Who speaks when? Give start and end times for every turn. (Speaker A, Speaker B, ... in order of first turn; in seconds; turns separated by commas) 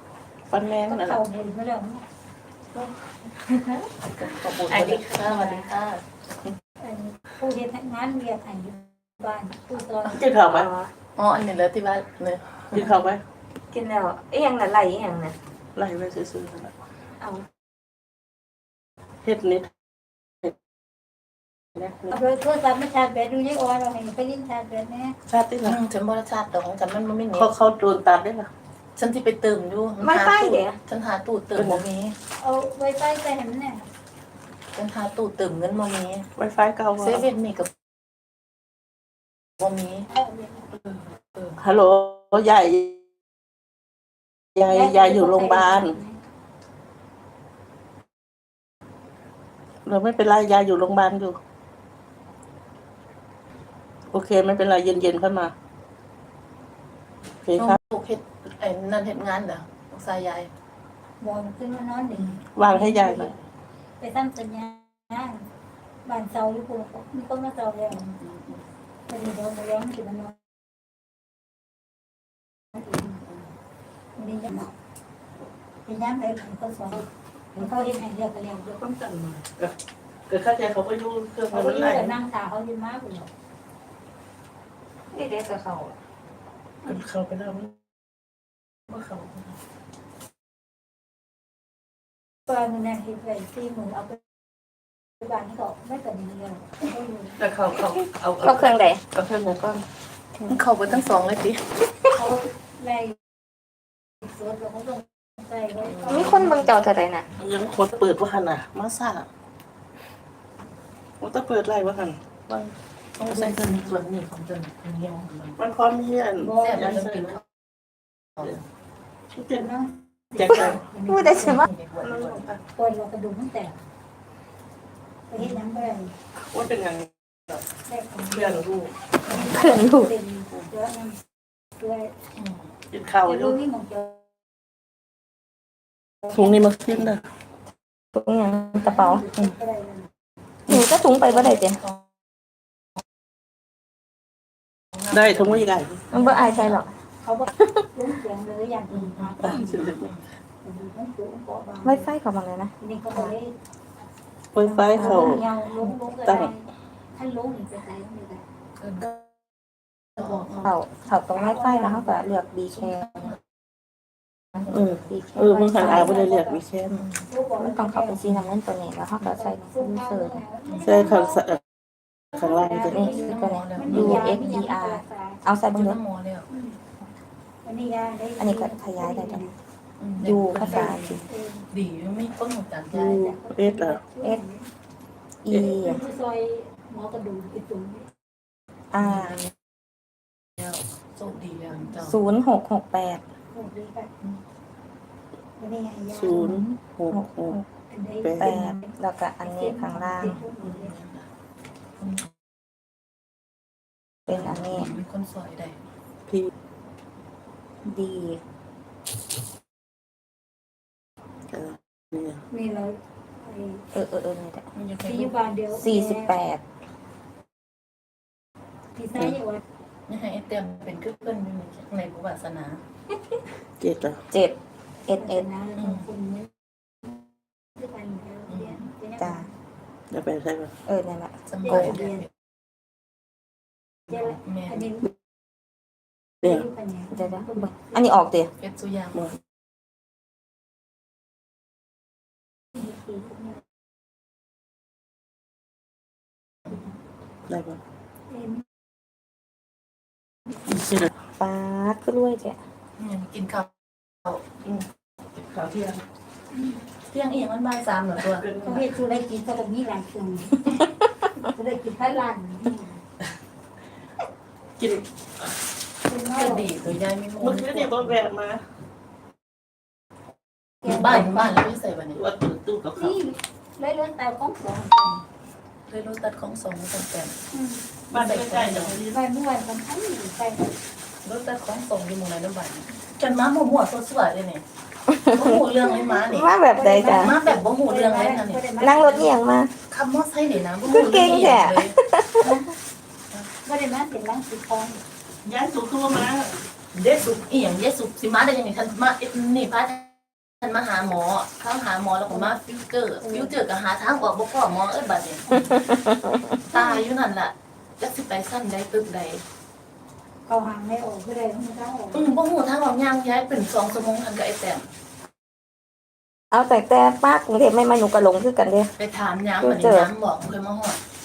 Speaker A: 0.5-1.2, Speaker B: 0.9-2.0, Speaker C: 3.5-3.8, Speaker D: 4.2-6.0, Speaker A: 4.7-5.1, Speaker C: 4.7-5.7, Speaker B: 6.8-10.2, Speaker A: 10.1-10.7, Speaker C: 10.4-10.9, Speaker D: 11.2-12.7, Speaker A: 12.7-13.2, Speaker C: 13.7-15.4, Speaker A: 15.8-16.8, Speaker A: 19.2-19.7, Speaker A: 21.8-22.1, Speaker B: 22.1-25.2, Speaker A: 25.3-25.8, Speaker D: 25.6-27.5, Speaker A: 27.4-28.5, Speaker D: 29.0-32.2, Speaker C: 30.0-30.8, Speaker A: 31.6-31.9, Speaker B: 32.4-33.9, Speaker D: 34.8-36.3, Speaker A: 36.4-37.2, Speaker D: 37.0-37.7, Speaker D: 39.6-40.1, Speaker B: 40.1-40.8, Speaker A: 41.6-43.0, Speaker A: 44.6-46.0, Speaker B: 44.6-46.2, Speaker A: 49.9-51.4, Speaker A: 54.1-55.5, Speaker A: 57.4-57.8, Speaker D: 57.6-60.5, Speaker B: 61.2-63.3, Speaker A: 62.5-63.3, Speaker B: 64.0-65.5, Speaker B: 66.0-68.0, Speaker D: 67.9-68.6, Speaker B: 69.1-70.4, Speaker B: 72.7-73.2, Speaker B: 74.2-74.8, Speaker B: 75.9-78.8, Speaker A: 78.8-79.7, Speaker A: 80.3-82.2, Speaker B: 81.5-83.3, Speaker C: 85.1-86.0, Speaker A: 86.8-87.8, Speaker A: 88.9-89.5, Speaker B: 92.5-94.2, Speaker B: 95.2-97.4, Speaker A: 97.4-99.8, Speaker C: 98.4-99.0, Speaker D: 100.5-101.7, Speaker B: 102.2-103.2, Speaker B: 104.2-106.7, Speaker C: 106.1-107.3, Speaker A: 107.4-109.3, Speaker A: 111.2-112.8, Speaker D: 113.2-115.6, Speaker A: 113.3-113.9, Speaker A: 115.6-117.4, Speaker D: 116.5-117.4, Speaker A: 119.3-119.7, Speaker B: 119.5-123.8, Speaker A: 120.4-120.8, Speaker C: 121.1-121.7, Speaker D: 121.4-122.5, Speaker A: 122.3-122.6, Speaker B: 125.3-126.1, Speaker A: 126.5-127.6, Speaker B: 127.9-128.7, Speaker A: 128.3-128.9, Speaker B: 129.2-131.2, Speaker C: 129.5-130.1, Speaker B: 131.8-132.1, Speaker D: 132.4-132.7, Speaker A: 132.9-133.6, Speaker B: 133.2-134.2, Speaker A: 136.3-137.2, Speaker C: 138.1-139.2, Speaker B: 138.8-140.1, Speaker C: 140.7-141.8, Speaker D: 141.3-142.0, Speaker D: 144.9-146.8, Speaker A: 145.1-146.1, Speaker C: 146.1-146.9, Speaker B: 147.2-149.9, Speaker A: 149.4-150.2, Speaker D: 149.8-150.2, Speaker B: 150.6-152.1, Speaker C: 151.8-153.3, Speaker B: 152.8-153.6, Speaker A: 154.5-155.5, Speaker B: 154.6-158.4, Speaker C: 155.0-155.5, Speaker A: 156.2-156.5, Speaker D: 160.2-160.5, Speaker C: 160.6-163.3, Speaker B: 161.2-162.3, Speaker A: 164.7-167.1, Speaker C: 165.1-166.2, Speaker B: 165.8-166.6, Speaker B: 167.3-168.3, Speaker C: 167.6-170.4, Speaker B: 169.2-171.4, Speaker D: 170.7-171.1, Speaker A: 170.8-171.6, Speaker A: 172.3-173.1, Speaker B: 172.7-175.4, Speaker C: 172.9-176.0, Speaker D: 172.9-174.4, Speaker D: 175.7-176.5, Speaker B: 176.5-176.8, Speaker B: 177.7-179.6, Speaker C: 178.4-179.5, Speaker D: 180.0-183.3, Speaker C: 180.2-181.2, Speaker B: 181.2-181.7, Speaker B: 182.9-184.7, Speaker A: 183.5-184.0, Speaker C: 185.4-186.0, Speaker B: 185.5-188.1, Speaker C: 188.9-189.4, Speaker D: 189.0-189.3, Speaker D: 190.6-192.2, Speaker C: 192.0-193.2, Speaker B: 193.5-194.1, Speaker B: 195.6-196.7, Speaker A: 196.1-197.6, Speaker C: 197.1-197.6, Speaker B: 197.9-200.9, Speaker A: 198.2-198.5, Speaker C: 198.4-200.4, Speaker D: 200.6-201.2, Speaker C: 204.3-204.9, Speaker D: 204.3-205.8, Speaker C: 207.8-208.4, Speaker A: 211.5-212.4, Speaker B: 212.5-213.8, Speaker C: 213.9-214.6, Speaker D: 214.8-215.3, Speaker B: 215.0-216.4, Speaker C: 215.7-216.6, Speaker B: 219.0-219.6, Speaker D: 220.1-222.8, Speaker A: 223.8-224.2, Speaker C: 224.3-225.4, Speaker B: 225.2-226.5, Speaker D: 225.8-226.0, Speaker B: 227.8-229.5, Speaker D: 228.5-228.8, Speaker C: 229.2-229.5, Speaker A: 230.1-230.7, Speaker C: 230.9-232.0, Speaker D: 231.5-232.3, Speaker B: 231.6-232.3, Speaker B: 234.1-235.1, Speaker D: 234.1-234.9, Speaker B: 236.4-238.1, Speaker C: 237.1-238.5, Speaker D: 238.6-239.3, Speaker B: 242.8-243.6, Speaker A: 247.5-247.8, Speaker B: 248.3-248.6, Speaker A: 250.7-251.1, Speaker C: 251.4-252.6, Speaker D: 253.0-253.7, Speaker A: 255.4-256.0, Speaker B: 256.5-256.8, Speaker D: 257.1-258.5, Speaker A: 258.3-258.9, Speaker B: 258.6-260.8, Speaker B: 261.4-263.0, Speaker A: 264.8-265.5, Speaker B: 266.1-266.7, Speaker D: 266.4-268.1, Speaker A: 267.4-268.6, Speaker B: 270.8-271.6, Speaker D: 270.8-272.2, Speaker A: 272.1-273.2, Speaker B: 273.0-275.2, Speaker D: 275.9-277.4, Speaker B: 277.5-277.8, Speaker A: 278.1-279.2, Speaker D: 278.1-278.9, Speaker B: 279.1-280.7, Speaker D: 281.2-284.6, Speaker C: 285.1-287.4, Speaker D: 285.3-288.6, Speaker B: 286.8-289.3, Speaker C: 288.8-289.7, Speaker D: 289.9-292.0, Speaker C: 290.9-292.5, Speaker B: 293.6-295.0, Speaker A: 295.4-296.6, Speaker D: 296.9-305.7, Speaker B: 303.2-303.5, Speaker B: 305.5-305.8, Speaker C: 305.7-306.6, Speaker D: 306.7-309.4, Speaker B: 310.5-312.3, Speaker D: 312.1-314.9, Speaker C: 316.5-318.9, Speaker D: 319.0-321.0, Speaker C: 319.6-320.1